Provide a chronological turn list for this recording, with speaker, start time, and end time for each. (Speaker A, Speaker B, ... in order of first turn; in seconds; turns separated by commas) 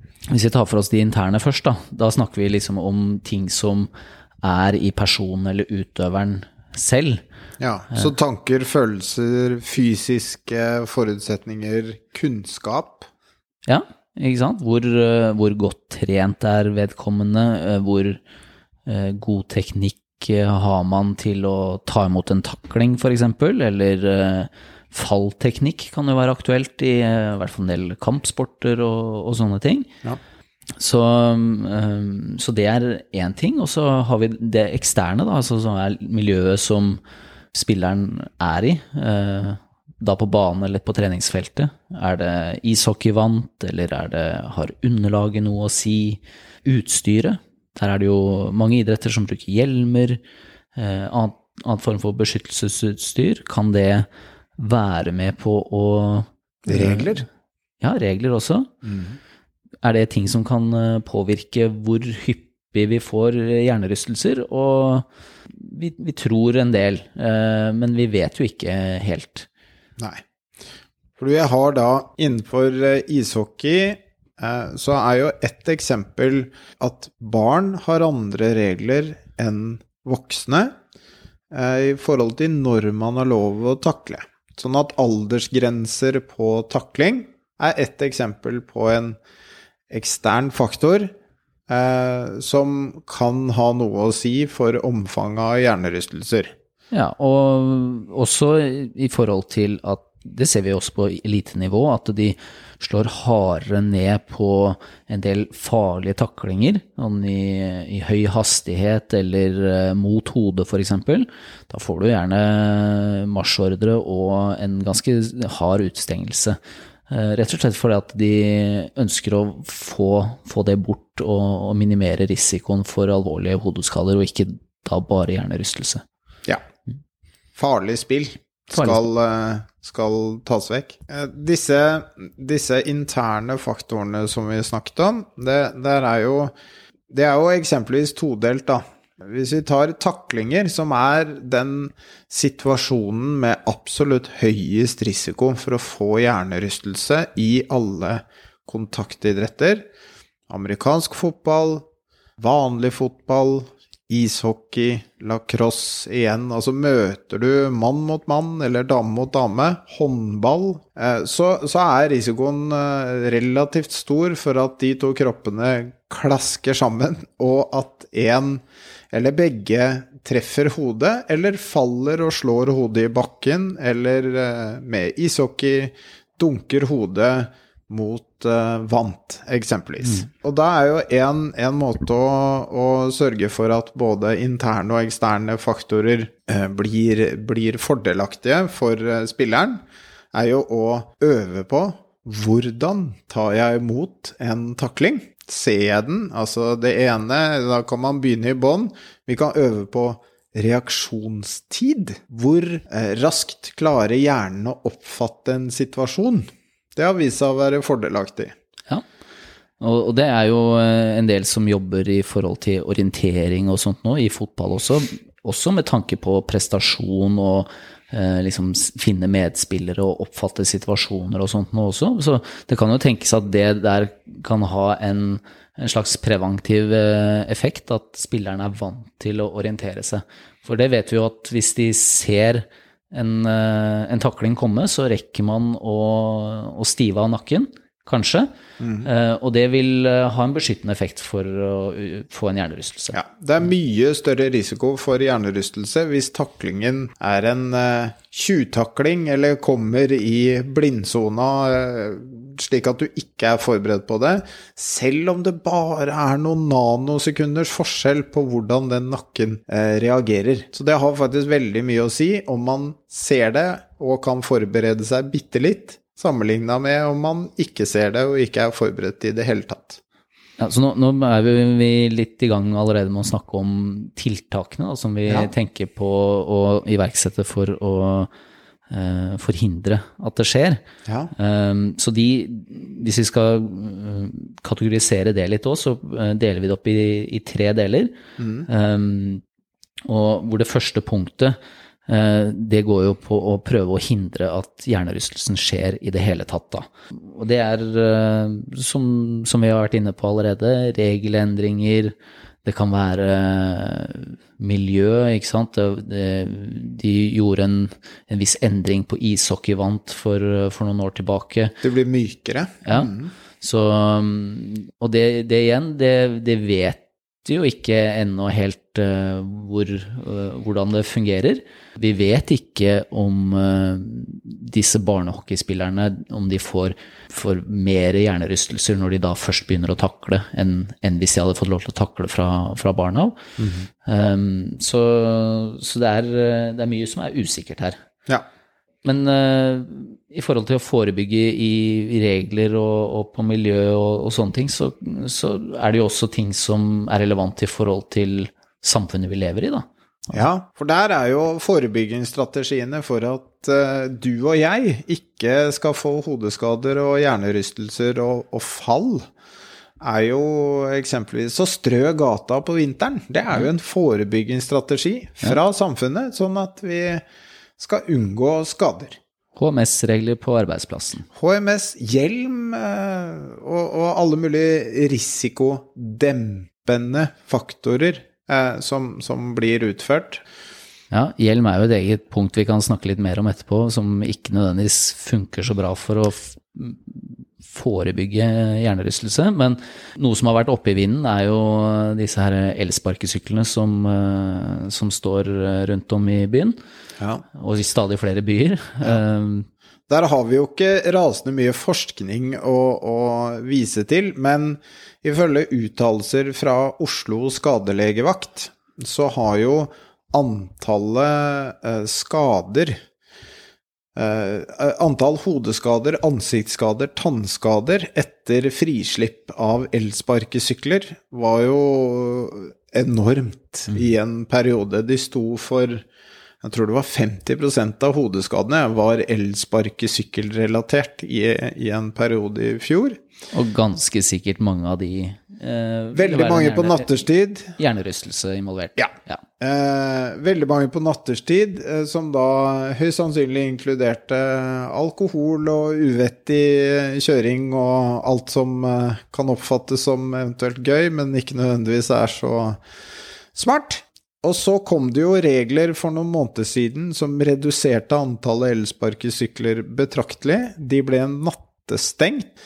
Speaker A: 0.3-3.9, Speaker A: 4.4-7.2, Speaker B: 7.6-13.1, Speaker A: 13.7-18.2, Speaker A: 18.9-30.0, Speaker A: 30.8-37.0, Speaker A: 37.5-50.2, Speaker A: 50.8-57.2, Speaker B: 56.7-57.2, Speaker A: 57.8-58.8, Speaker B: 58.8-59.2, Speaker A: 59.8-69.5, Speaker B: 70.0-70.2, Speaker B: 71.2-80.8, Speaker B: 81.5-89.2, Speaker B: 89.9-91.1, Speaker B: 91.7-96.5, Speaker A: 96.9-126.0, Speaker B: 127.6-136.5, Speaker A: 128.7-129.1, Speaker B: 137.1-149.9, Speaker B: 150.5-151.8, Speaker B: 152.4-208.5, Speaker A: 209.8-243.2, Speaker B: 238.8-239.1, Speaker B: 243.2-270.0, Speaker A: 270.6-278.3, Speaker B: 275.3-275.5, Speaker A: 278.9-289.4, Speaker B: 281.1-281.3, Speaker B: 288.4-288.7, Speaker A: 290.1-311.9, Speaker B: 311.9-313.3, Speaker A: 312.8-333.5, Speaker B: 333.6-333.9, Speaker A: 334.0-338.0, Speaker A: 339.0-350.5, Speaker B: 350.4-359.3, Speaker B: 360.0-367.2, Speaker B: 367.8-369.2, Speaker A: 369.6-371.3, Speaker B: 371.4-380.4, Speaker A: 381.1-396.8, Speaker B: 397.2-397.4, Speaker A: 397.5-399.7, Speaker B: 400.1-413.0, Speaker B: 414.2-426.1, Speaker B: 426.6-433.2, Speaker A: 433.5-439.5, Speaker B: 436.2-437.8, Speaker B: 439.6-452.8, Speaker B: 453.6-462.5